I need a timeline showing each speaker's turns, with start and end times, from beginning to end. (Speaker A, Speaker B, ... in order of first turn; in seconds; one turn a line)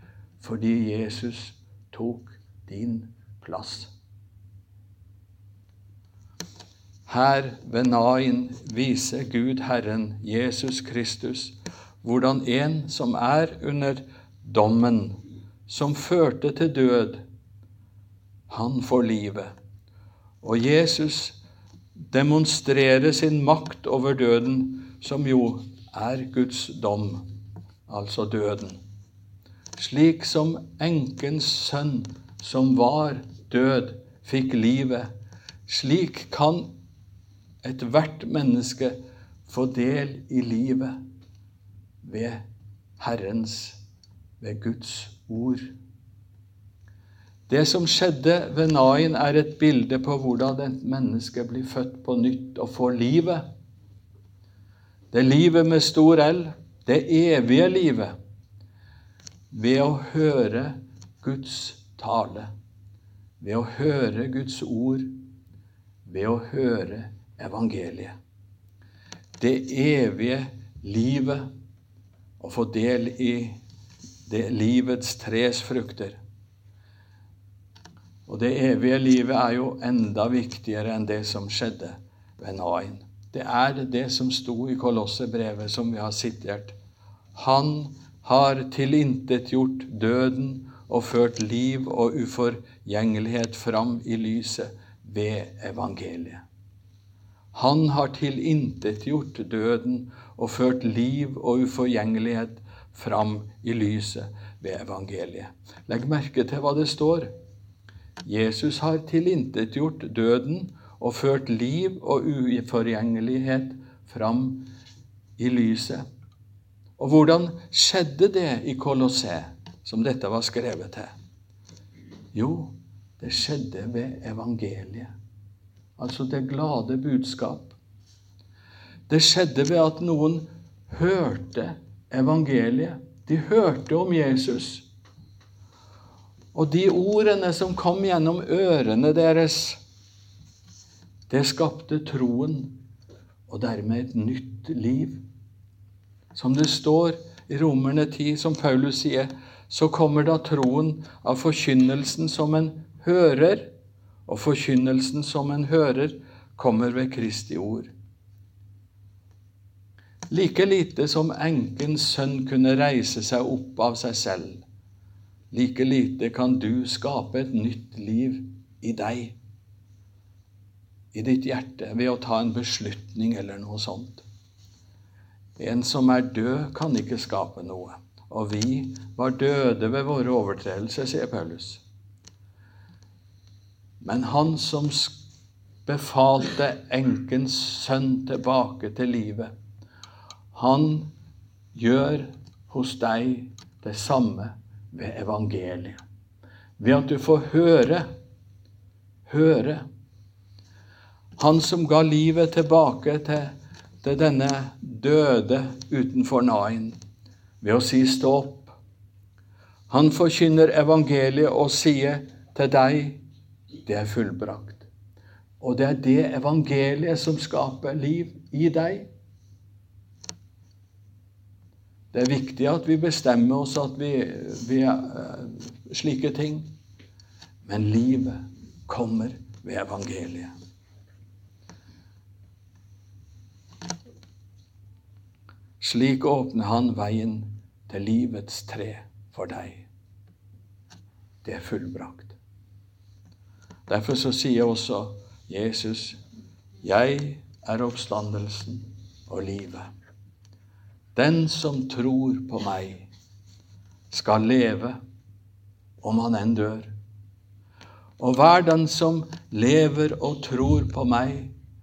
Speaker A: 0.4-3.9
Speaker A: 7.1-17.2
Speaker A: 18.5-19.5
Speaker A: 20.4-21.4
Speaker A: 22.1-27.2
Speaker A: 27.9-28.8
Speaker A: 29.8-35.1
Speaker A: 35.7-36.7
Speaker A: 37.6-41.0
Speaker A: 42.0-42.4
Speaker A: 43.0-43.8
Speaker A: 44.4-45.7
Speaker A: 47.5-53.4
Speaker A: 55.1-58.1
Speaker A: 59.5-62.5
Speaker A: 63.4-65.2
Speaker A: 66.0-68.1
Speaker A: 69.4-71.5
Speaker A: 72.4-73.6
Speaker A: 74.2-76.2
Speaker A: 78.3-86.7
Speaker A: 87.3-96.4
Speaker A: 97.5-107.3
Speaker A: 108.2-114.7
Speaker A: 115.4-116.0
Speaker A: 117.0-121.1
Speaker A: 122.3-125.1
Speaker A: 126.0-127.8
Speaker A: 129.1-134.8
Speaker A: 136.5-139.8
Speaker A: 141.3-142.8
Speaker A: 143.5-145.2
Speaker A: 146.3-153.7
Speaker A: 154.3-157.9
Speaker A: 160.3-164.6
Speaker A: 165.5-169.3
Speaker A: 171.1-174.2
Speaker A: 175.6-181.8
Speaker A: 184.0-185.2
Speaker A: 185.8-189.5
Speaker A: 190.5-191.1
Speaker A: 191.7-196.0
Speaker A: 196.8-198.0
Speaker A: 199.3-199.8
Speaker A: 201.4-207.0
Speaker A: 207.6-208.8
Speaker A: 209.9-213.2
Speaker A: 213.8-214.9
Speaker A: 215.6-219.1
Speaker A: 222.1-226.7
Speaker A: 227.6-230.5
Speaker A: 235.8-239.9
Speaker A: 241.4-242.3
Speaker A: 243.9-246.2
Speaker A: 246.8-249.9
Speaker A: 251.1-253.1
Speaker A: 254.1-255.0
Speaker A: 256.0-256.9
Speaker A: 258.2-261.5